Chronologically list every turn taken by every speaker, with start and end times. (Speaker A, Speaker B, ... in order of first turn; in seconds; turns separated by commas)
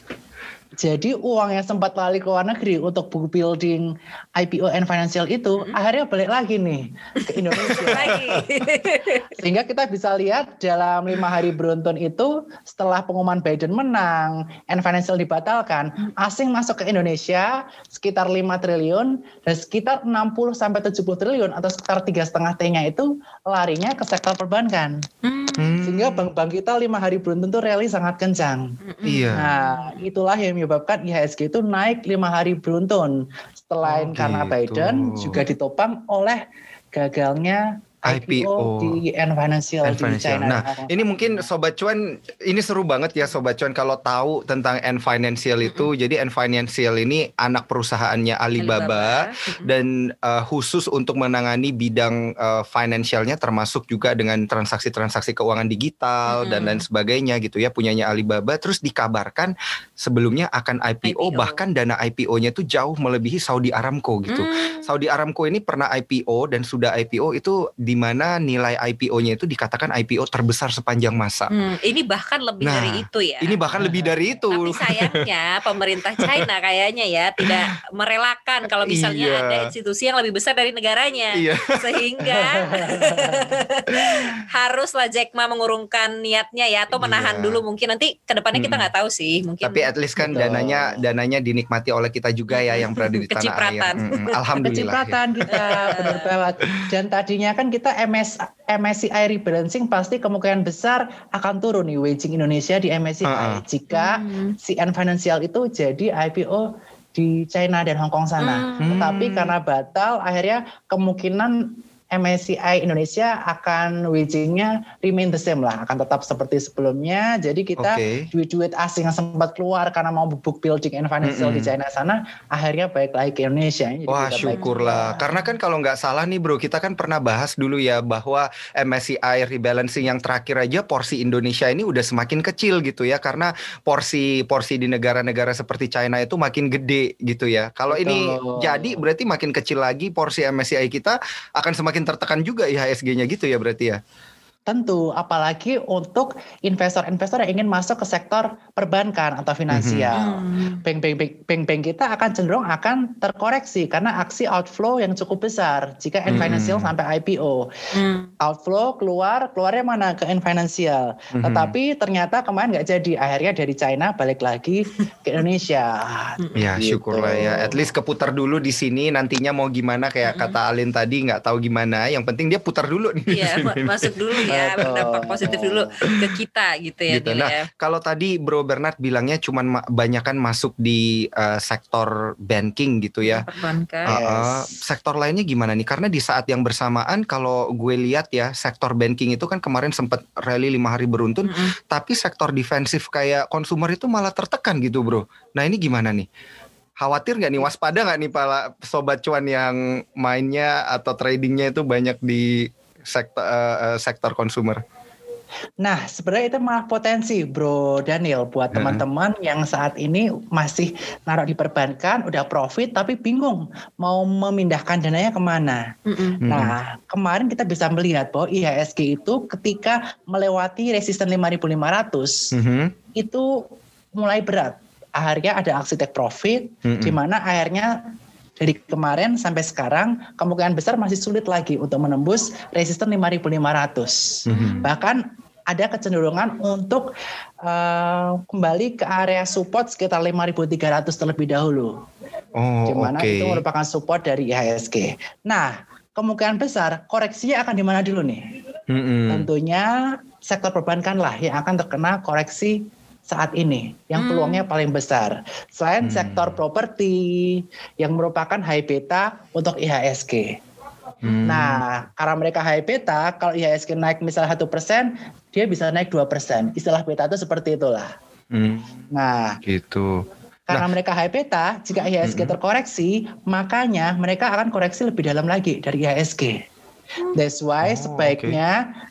Speaker A: 0.8-8.2, Speaker B: 7.2-9.4, Speaker C: 7.6-8.4, Speaker A: 9.4-25.0, Speaker B: 25.2-25.8, Speaker C: 25.6-26.2, Speaker A: 25.8-28.8, Speaker B: 28.9-30.1, Speaker C: 29.0-29.4, Speaker A: 29.4-41.5, Speaker C: 33.8-35.4, Speaker C: 38.1-39.0, Speaker C: 39.9-71.5, Speaker B: 45.6-45.9, Speaker B: 48.6-49.7, Speaker B: 56.3-56.8, Speaker B: 61.0-61.6, Speaker B: 64.3-64.9, Speaker B: 71.5-73.6, Speaker C: 72.6-75.2, Speaker A: 73.8-74.1, Speaker B: 74.5-89.9, Speaker C: 76.2-76.5, Speaker C: 78.9-79.7, Speaker C: 81.3-81.8, Speaker A: 82.6-83.5, Speaker C: 86.9-87.6, Speaker C: 88.6-88.9, Speaker C: 89.6-96.1, Speaker A: 90.2-91.0, Speaker B: 92.5-94.7, Speaker A: 94.6-125.2, Speaker B: 95.5-96.3, Speaker C: 103.2-103.6, Speaker B: 103.9-104.6, Speaker B: 108.4-109.1, Speaker C: 108.8-109.5, Speaker C: 117.8-118.3, Speaker C: 121.2-121.7, Speaker C: 124.1-144.0, Speaker B: 124.5-125.4, Speaker A: 137.9-139.0, Speaker A: 144.7-157.7, Speaker C: 149.7-150.1, Speaker B: 150.2-150.8, Speaker C: 156.3-156.9, Speaker B: 157.9-158.3, Speaker A: 158.4-167.8, Speaker C: 161.3-161.7, Speaker B: 166.4-166.7, Speaker C: 166.6-175.2, Speaker B: 170.3-170.6, Speaker B: 173.3-177.7, Speaker A: 174.5-175.9, Speaker C: 176.0-176.3, Speaker C: 177.1-183.5, Speaker B: 183.2-184.2, Speaker C: 184.1-196.3, Speaker A: 184.1-184.8, Speaker C: 197.0-204.8, Speaker A: 205.8-215.8, Speaker C: 208.7-209.0, Speaker B: 216.1-216.4, Speaker C: 216.4-216.8, Speaker A: 216.4-222.5, Speaker C: 222.5-222.9, Speaker A: 223.2-223.6, Speaker A: 224.2-228.0, Speaker C: 226.8-227.2, Speaker A: 228.6-237.1, Speaker C: 234.5-234.8, Speaker B: 234.5-235.1, Speaker A: 237.6-241.9, Speaker C: 242.6-243.6, Speaker A: 242.9-248.4, Speaker C: 248.9-249.5, Speaker A: 249.3-249.9, Speaker A: 250.4-260.5, Speaker B: 254.2-254.7, Speaker C: 256.0-256.6, Speaker C: 261.2-261.8, Speaker A: 261.5-268.1, Speaker C: 268.5-269.0, Speaker A: 269.1-269.6, Speaker C: 269.6-270.9, Speaker A: 270.7-276.6, Speaker C: 272.2-272.6, Speaker A: 277.4-278.8, Speaker C: 277.8-278.6